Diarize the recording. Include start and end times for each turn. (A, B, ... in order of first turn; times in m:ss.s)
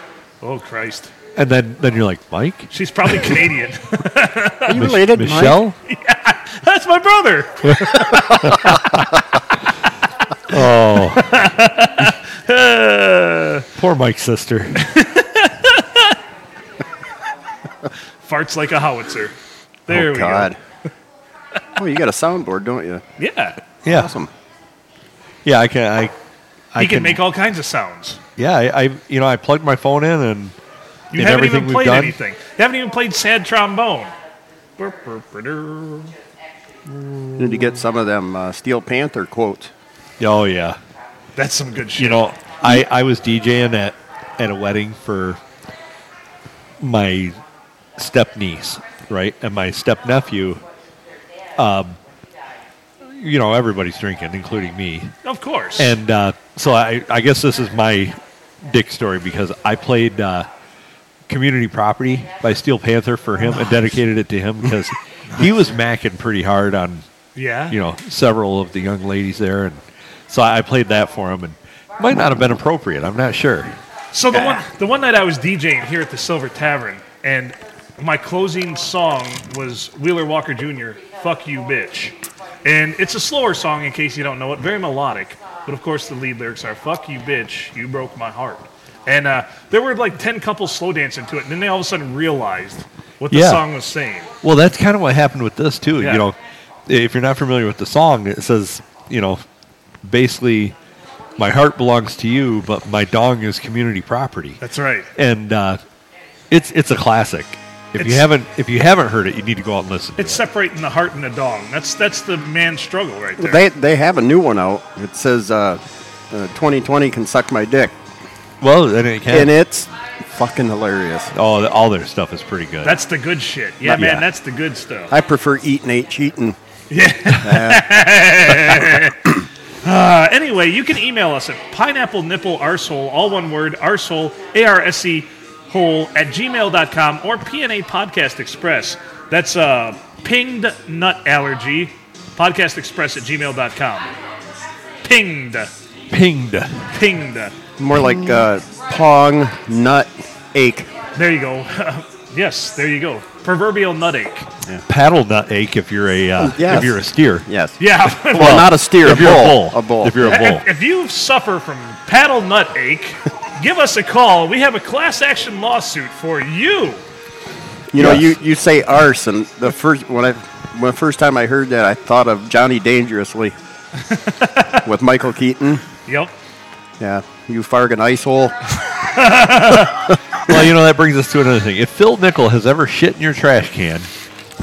0:00.4-0:01.1 A
0:01.4-0:03.2 B
0:02.7-0:04.9 A
0:04.7-0:05.6 C
0:04.7-0:05.8 B
0:05.9-0:08.8 A
0:07.7-0:09.0 B
0:10.5-0:11.2 B
0:11.1-0:13.7 A
0:13.8-0:14.8 B
0:14.8-0:16.2 A
0:18.2-0:19.4 A
0:19.9-0:20.5 A
0:19.9-0:20.6 C
0:21.8-0:23.0 C
0:23.2-0:23.6 A
0:23.8-0:24.1 B
0:23.8-0:24.3 C
0:25.4-0:26.1 B
0:26.7-0:27.2 B
0:26.8-0:28.2 A
0:28.4-0:30.6 B
0:31.1-0:34.2 A
0:31.1-0:32.2 B
0:34.8-0:36.1 A
0:36.9-0:37.8 A
0:37.4-0:39.7 C
0:40.2-0:40.8 B
0:41.4-0:42.2 A
0:42.0-0:45.4 B
0:46.8-0:47.4 B
0:48.0-0:50.6 B
0:51.6-0:52.0 B
0:53.0-0:55.1 B
0:55.2-0:56.0 A
0:55.8-1:00.5 B
1:01.3-1:07.0 B
1:07.4-1:07.8 A
1:07.7-1:13.7 B
1:14.1-1:34.3 A
1:14.3-1:14.6 C
1:33.3-1:33.6 B
1:34.4-1:39.4 B
1:36.0-1:36.3 A
1:40.0-1:40.8 B
1:41.4-1:44.6 B
1:44.6-1:45.1 A
1:45.2-1:45.8 B
1:46.5-1:50.4 B
1:48.0-1:48.3 A
1:50.2-1:53.6 A
1:53.4-1:57.9 C
1:58.6-1:59.5 B
1:59.3-2:01.3 C
2:01.3-2:03.0 B
2:02.8-2:05.1 A
2:03.8-2:04.3 B
2:05.1-2:06.6 C
2:06.9-2:09.2 A
2:07.3-2:07.9 C
2:09.8-2:24.1 A
2:25.0-2:25.7 A
2:26.1-2:26.9 B
2:26.9-2:27.6 A
2:27.8-2:30.9 C
2:31.2-2:34.5 A
2:34.9-2:37.5 B
2:36.4-2:37.8 C
2:37.8-2:38.7 A
2:38.2-2:40.6 B
2:38.3-2:40.2 C
2:40.2-2:47.0 A
2:47.9-2:53.6 C
2:48.0-2:48.4 B
2:54.1-2:54.9 A
2:54.8-2:55.8 C
2:56.0-2:56.3 A
2:57.0-2:58.6 C
2:59.0-3:00.0 A
3:00.4-3:04.1 B